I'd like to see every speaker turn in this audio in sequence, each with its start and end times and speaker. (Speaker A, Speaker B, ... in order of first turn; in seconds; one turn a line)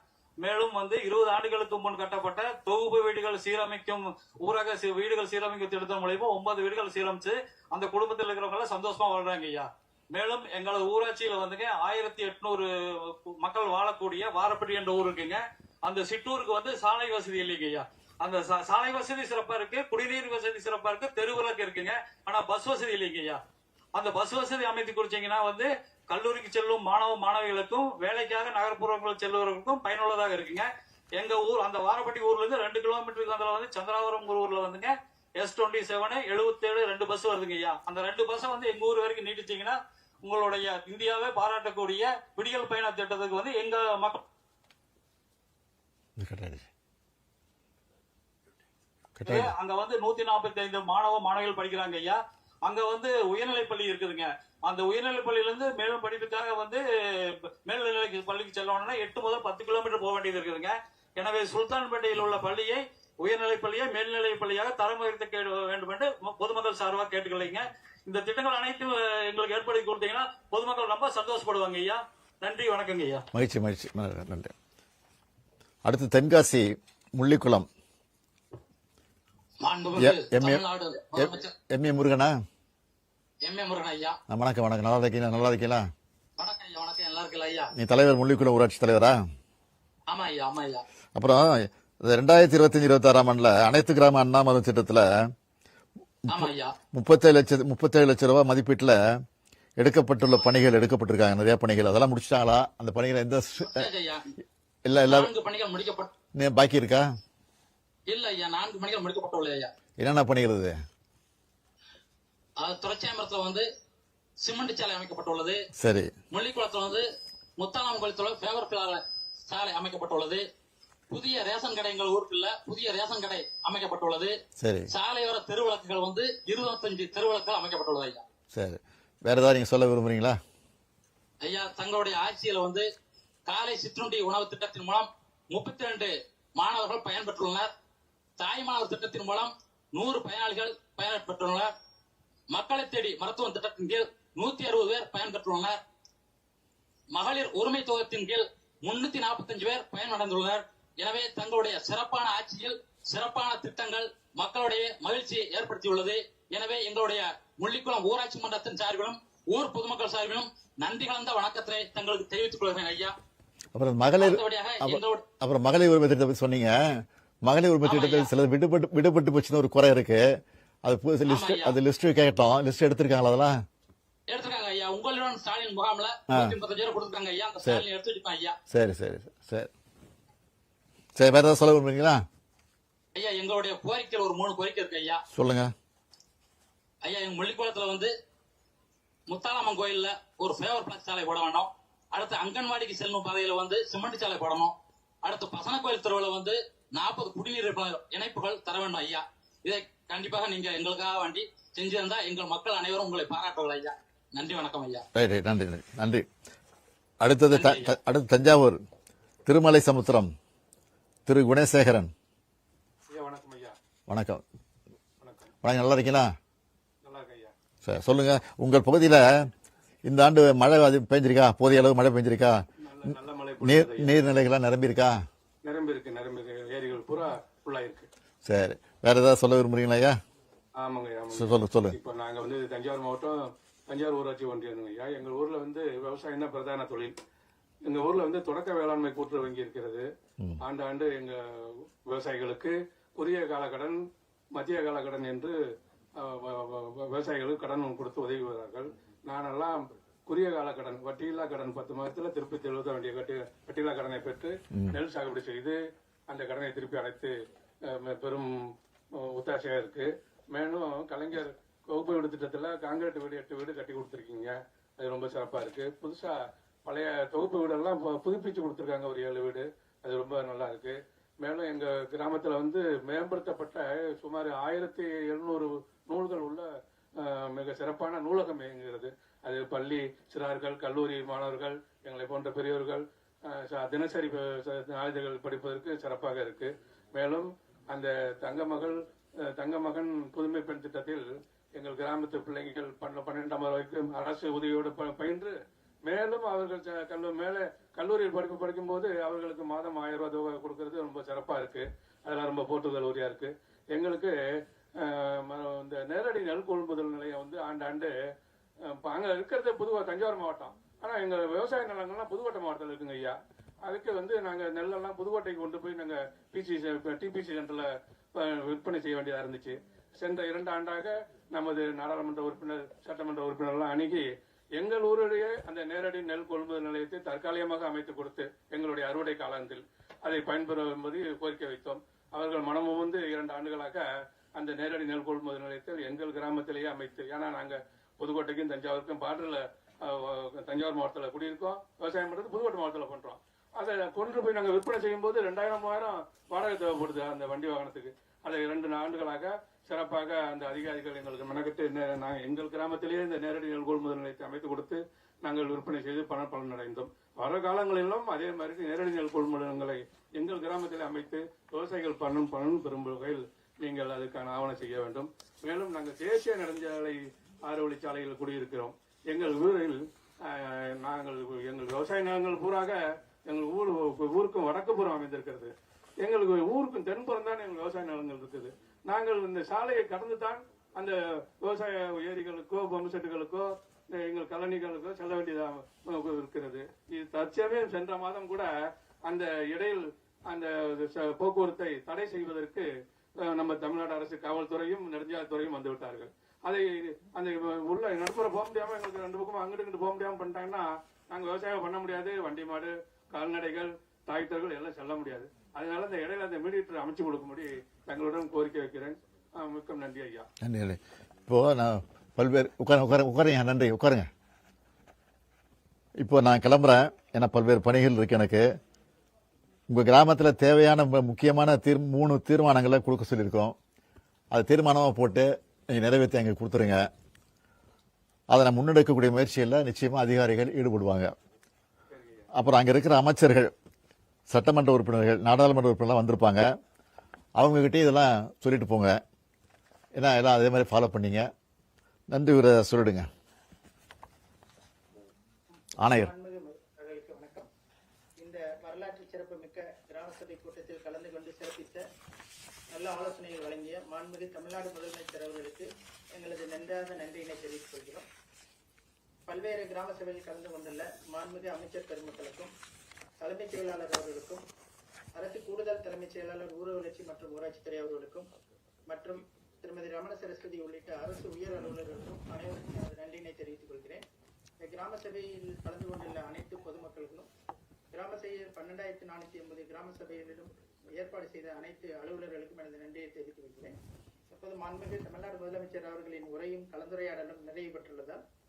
Speaker A: 0.4-23.4
Speaker A: 23.9-44.2
Speaker B: 46.2-46.6
Speaker B: 49.2-49.5
Speaker A: 49.2-73.2
Speaker B: 73.3-74.5
Speaker B: 75.8-77.7
Speaker C: 79.6-81.5
Speaker B: 80.0-80.6
Speaker B: 81.2-82.3
Speaker C: 83.4-84.2
Speaker B: 84.3-85.8
Speaker C: 86.4-87.7
Speaker B: 87.8-89.2
Speaker C: 90.1-90.8
Speaker B: 91.1-95.3
Speaker C: 96.3-96.7
Speaker B: 96.3-99.0
Speaker B: 99.8-103.9
Speaker C: 103.6-104.3
Speaker B: 104.8-105.3
Speaker C: 105.1-106.1
Speaker B: 106.3-107.1
Speaker C: 108.1-109.7
Speaker B: 110.0-110.8
Speaker C: 112.6-113.7
Speaker C: 114.4-115.6
Speaker B: 115.8-116.1
Speaker C: 116.3-117.0
Speaker C: 117.6-120.4
Speaker C: 121.1-124.3
Speaker B: 124.6-124.9
Speaker C: 124.9-128.2
Speaker B: 128.5-130.4
Speaker C: 131.4-132.9
Speaker C: 133.5-137.7
Speaker C: 138.4-141.7
Speaker C: 142.5-145.8
Speaker C: 147.1-163.2
Speaker B: 163.7-173.6
Speaker C: 164.2-165.2
Speaker C: 167.8-168.3
Speaker C: 171.3-171.8
Speaker C: 174.3-178.6
Speaker B: 176.3-176.5
Speaker B: 178.7-179.7
Speaker B: 181.2-182.2
Speaker C: 183.1-185.2
Speaker B: 185.3-185.7
Speaker C: 187.0-188.1
Speaker C: 189.3-194.7
Speaker C: 195.2-205.1
Speaker B: 205.1-206.2
Speaker B: 207.2-208.8
Speaker C: 207.5-208.0
Speaker B: 209.4-210.3
Speaker B: 211.2-212.1
Speaker D: 213.1-213.8
Speaker B: 214.1-214.4
Speaker D: 215.2-215.5
Speaker B: 215.6-216.3
Speaker D: 217.0-217.5
Speaker B: 217.8-219.5
Speaker B: 220.1-222.6
Speaker D: 222.8-224.2
Speaker B: 223.6-225.2
Speaker D: 225.6-228.1
Speaker B: 228.4-230.2
Speaker D: 230.8-233.4
Speaker B: 231.3-231.9
Speaker D: 233.9-237.1
Speaker D: 237.8-240.1
Speaker D: 240.6-244.0
Speaker D: 244.5-245.6
Speaker D: 246.2-255.8
Speaker B: 254.7-255.0
Speaker D: 256.3-257.3
Speaker D: 257.9-258.5
Speaker D: 259.2-276.7
Speaker D: 277.2-304.3
Speaker D: 305.0-308.1
Speaker D: 308.9-324.2
Speaker D: 324.8-388.7
Speaker D: 389.3-392.9
Speaker D: 393.4-410.5
Speaker B: 410.6-414.3
Speaker B: 416.2-418.6
Speaker B: 419.9-423.8
Speaker B: 424.5-427.1
Speaker B: 428.5-431.3
Speaker D: 432.1-432.5
Speaker B: 432.5-433.7
Speaker B: 434.5-436.7
Speaker B: 437.6-439.2
Speaker B: 440.2-441.5
Speaker B: 442.3-443.3
Speaker B: 446.0-446.3
Speaker E: 446.0-447.7
Speaker E: 448.4-452.0
Speaker E: 452.9-458.3
Speaker E: 459.5-462.7
Speaker E: 463.4-464.6
Speaker E: 465.3-468.5
Speaker E: 469.1-474.2
Speaker E: 474.8-477.5
Speaker E: 478.1-483.9
Speaker E: 484.5-488.4